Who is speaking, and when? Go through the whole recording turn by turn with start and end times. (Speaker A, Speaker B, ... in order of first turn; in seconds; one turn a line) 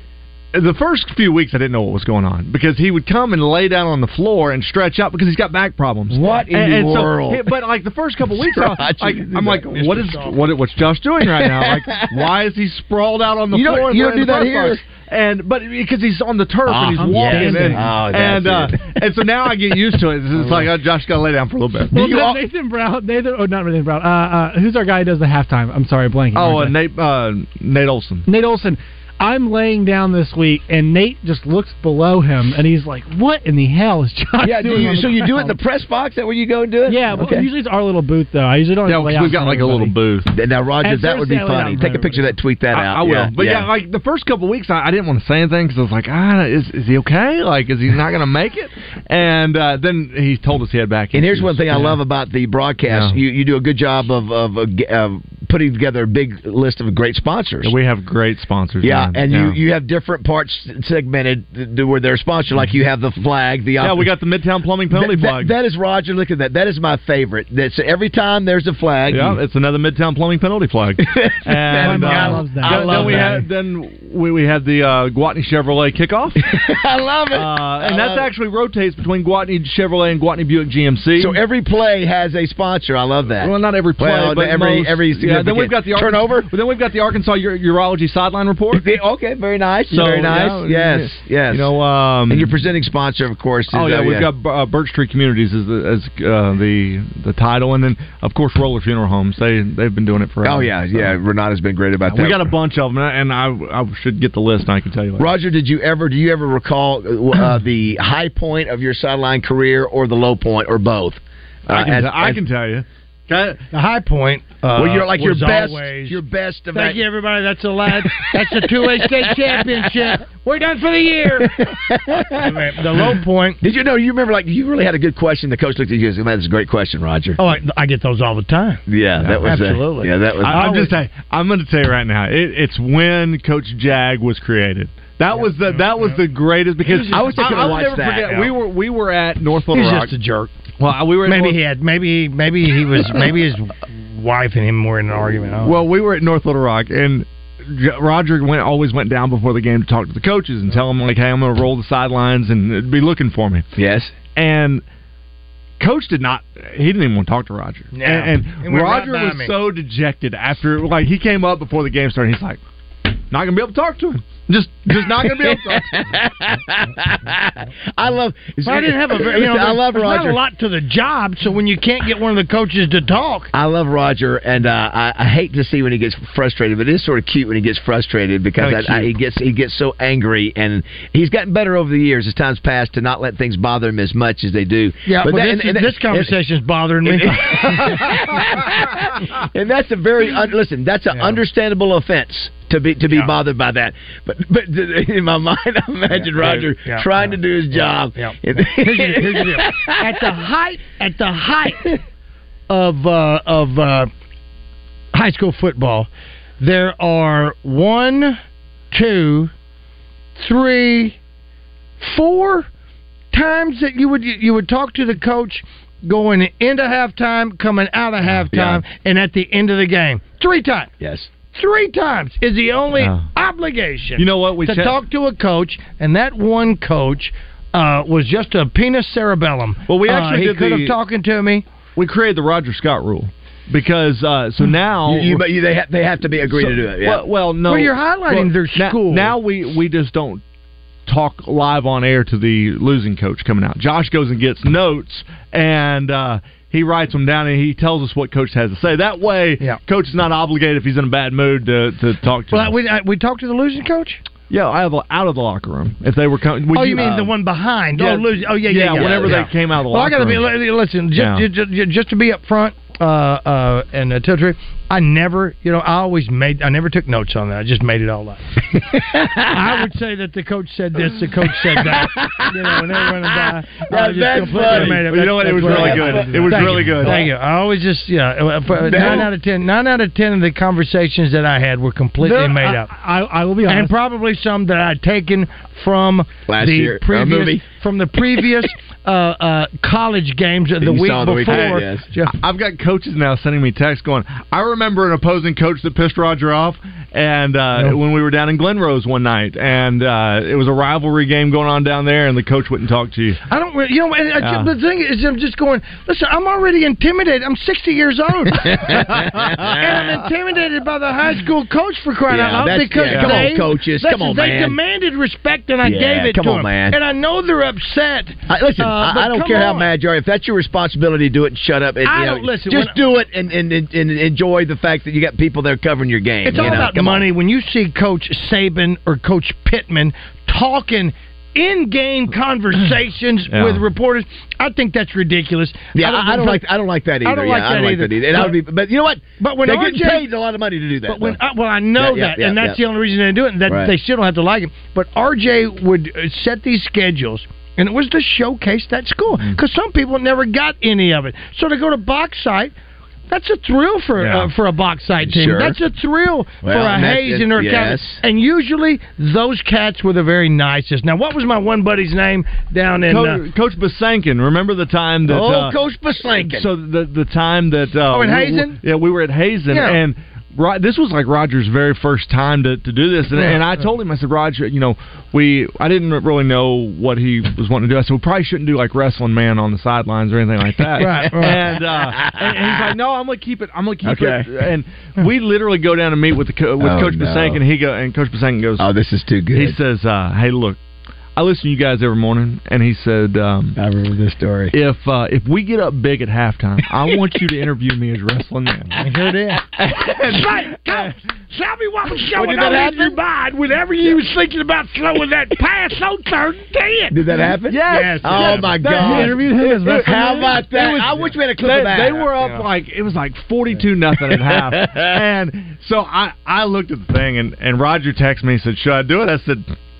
Speaker A: 0.5-22.0
Speaker B: 6.1-7.5
Speaker B: 8.3-9.7
Speaker C: 9.7-10.4
Speaker B: 11.2-12.3
Speaker B: 13.5-14.8
Speaker B: 16.6-18.9
Speaker D: 17.0-17.9
Speaker B: 20.4-20.6
Speaker B: 21.9-22.4
Speaker D: 21.9-26.8
Speaker A: 26.3-28.3
Speaker D: 28.3-35.5
Speaker B: 34.4-37.5
Speaker D: 36.9-40.0
Speaker A: 38.8-40.3
Speaker B: 40.3-43.7
Speaker D: 40.8-42.3
Speaker A: 42.7-52.0
Speaker B: 51.1-57.7
Speaker A: 52.9-53.2
Speaker A: 57.6-59.6
Speaker B: 58.8-64.1
Speaker A: 63.8-65.5
Speaker B: 64.9-69.4
Speaker A: 69.1-76.4
Speaker B: 71.0-73.3
Speaker D: 71.8-73.4
Speaker C: 72.2-73.4
Speaker B: 76.4-78.3
Speaker A: 77.3-81.4
Speaker B: 81.2-86.5
Speaker A: 83.4-88.8
Speaker B: 88.7-91.7
Speaker A: 89.9-92.5
Speaker B: 92.3-94.3
Speaker A: 93.7-101.1
Speaker B: 100.4-102.5
Speaker A: 102.1-105.3
Speaker B: 105.2-112.4
Speaker A: 111.7-113.6
Speaker C: 113.7-116.2
Speaker B: 114.7-117.0
Speaker C: 116.7-121.6
Speaker B: 118.0-120.2
Speaker B: 121.4-127.4
Speaker C: 122.3-123.6
Speaker C: 127.4-128.8
Speaker B: 128.9-130.8
Speaker C: 129.4-131.0
Speaker A: 130.4-140.1
Speaker C: 135.3-136.2
Speaker B: 136.8-138.4
Speaker C: 137.3-137.7
Speaker C: 138.2-138.5
Speaker C: 139.7-140.5
Speaker A: 140.8-141.6
Speaker C: 141.2-145.8
Speaker A: 145.6-153.7
Speaker B: 153.8-154.1
Speaker A: 154.3-154.8
Speaker A: 155.8-162.6
Speaker C: 157.9-159.5
Speaker A: 163.3-166.1
Speaker B: 164.9-170.4
Speaker C: 168.6-173.5
Speaker B: 173.5-186.3
Speaker A: 178.6-179.1
Speaker C: 185.1-188.0
Speaker B: 187.0-200.2
Speaker C: 191.1-191.4
Speaker C: 196.1-202.0
Speaker C: 202.7-204.1
Speaker C: 205.1-206.1
Speaker C: 206.6-208.4
Speaker C: 208.9-209.5
Speaker C: 210.4-211.2
Speaker C: 212.0-212.7
Speaker C: 213.3-220.9
Speaker B: 218.5-218.8
Speaker B: 221.0-221.3
Speaker C: 221.5-231.7
Speaker A: 223.0-223.3
Speaker A: 224.2-225.0
Speaker A: 229.9-230.9
Speaker A: 231.9-235.4
Speaker B: 235.1-237.2
Speaker A: 236.5-240.4
Speaker C: 237.7-239.4
Speaker A: 241.1-252.8
Speaker C: 252.5-254.2
Speaker A: 254.5-257.3
Speaker C: 256.7-268.4
Speaker A: 257.9-260.5
Speaker B: 259.0-259.2
Speaker A: 261.1-261.4
Speaker B: 268.9-269.6
Speaker C: 269.5-282.9
Speaker B: 271.8-276.7
Speaker A: 274.5-277.3
Speaker B: 278.8-279.3
Speaker D: 282.2-283.9
Speaker C: 283.6-292.3
Speaker B: 286.5-287.6
Speaker B: 290.8-292.0
Speaker A: 291.4-303.4
Speaker C: 303.5-319.9
Speaker A: 304.4-304.7
Speaker B: 308.5-310.0
Speaker B: 312.3-314.8
Speaker A: 313.1-313.4
Speaker B: 315.8-317.0
Speaker B: 318.5-327.3
Speaker C: 322.0-323.0
Speaker C: 326.4-336.6
Speaker A: 333.5-333.8
Speaker B: 335.9-341.4
Speaker C: 337.2-338.6
Speaker C: 339.4-340.3
Speaker C: 341.1-352.7
Speaker B: 341.9-342.8
Speaker B: 343.7-343.9
Speaker C: 353.3-363.4
Speaker A: 354.2-354.5
Speaker B: 355.2-355.8
Speaker B: 356.6-358.2
Speaker A: 363.1-365.8
Speaker B: 365.3-366.7
Speaker A: 366.4-388.9
Speaker C: 368.1-368.8
Speaker C: 369.7-370.0
Speaker C: 373.3-373.7
Speaker C: 381.0-381.7
Speaker B: 381.4-382.9
Speaker B: 384.0-384.5
Speaker B: 386.8-387.6
Speaker B: 388.8-389.8
Speaker A: 389.5-390.8
Speaker A: 391.4-393.8
Speaker B: 393.8-394.7
Speaker A: 394.7-399.1
Speaker C: 399.0-399.7
Speaker A: 399.8-401.1
Speaker C: 400.2-407.3
Speaker B: 402.3-403.2
Speaker B: 407.1-412.3
Speaker A: 407.7-409.4
Speaker C: 407.9-408.9
Speaker D: 408.8-410.6
Speaker A: 410.1-419.7
Speaker C: 412.4-412.7
Speaker B: 414.3-415.1